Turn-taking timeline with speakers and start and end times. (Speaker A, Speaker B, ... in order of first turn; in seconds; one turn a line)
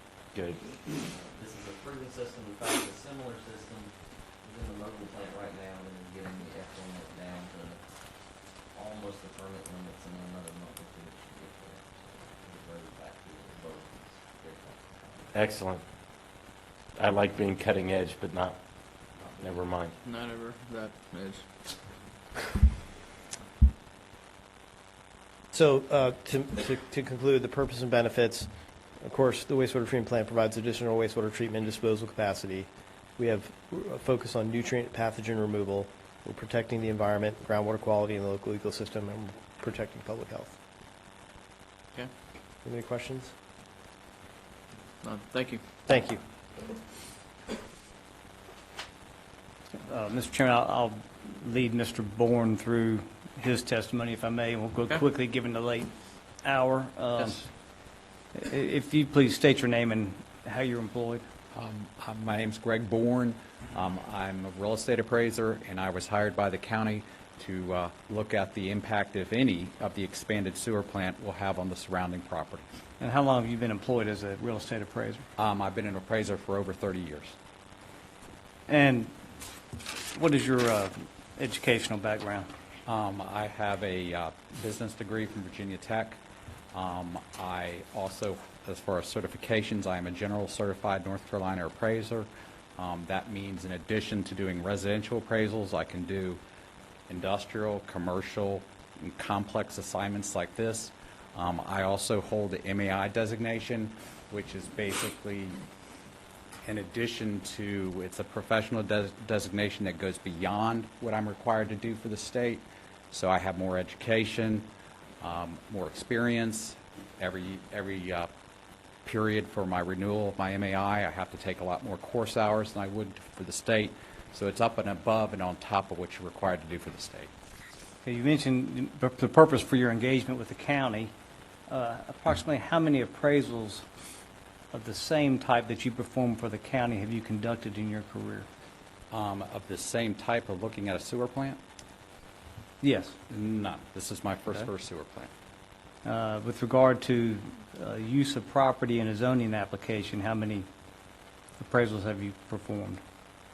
Speaker A: 0.3-0.7
Speaker B: 0.8-7.8
Speaker B: 8.7-15.4
Speaker A: 15.3-15.8
Speaker A: 17.0-18.6
Speaker B: 19.2-19.6
Speaker A: 19.4-20.0
Speaker C: 20.0-21.8
Speaker D: 25.5-28.5
Speaker D: 29.0-40.6
Speaker D: 42.6-43.3
Speaker C: 45.0-45.6
Speaker D: 45.9-46.2
Speaker E: 49.8-55.9
Speaker E: 56.4-57.5
Speaker E: 58.4-61.2
Speaker F: 61.5-72.7
Speaker E: 73.0-75.3
Speaker F: 75.4-77.4
Speaker E: 78.7-79.1
Speaker E: 80.1-82.5
Speaker F: 82.9-86.2
Speaker F: 86.7-96.4
Speaker F: 97.1-105.6
Speaker F: 106.6-114.7
Speaker F: 115.2-118.3
Speaker F: 119.0-127.3
Speaker E: 128.1-131.1
Speaker E: 131.7-133.8
Speaker E: 134.7-138.5
Speaker F: 139.1-141.6
Speaker E: 142.8-143.2
Speaker F: 143.3-145.3
Speaker E: 146.1-150.7
Speaker E: 151.6-153.0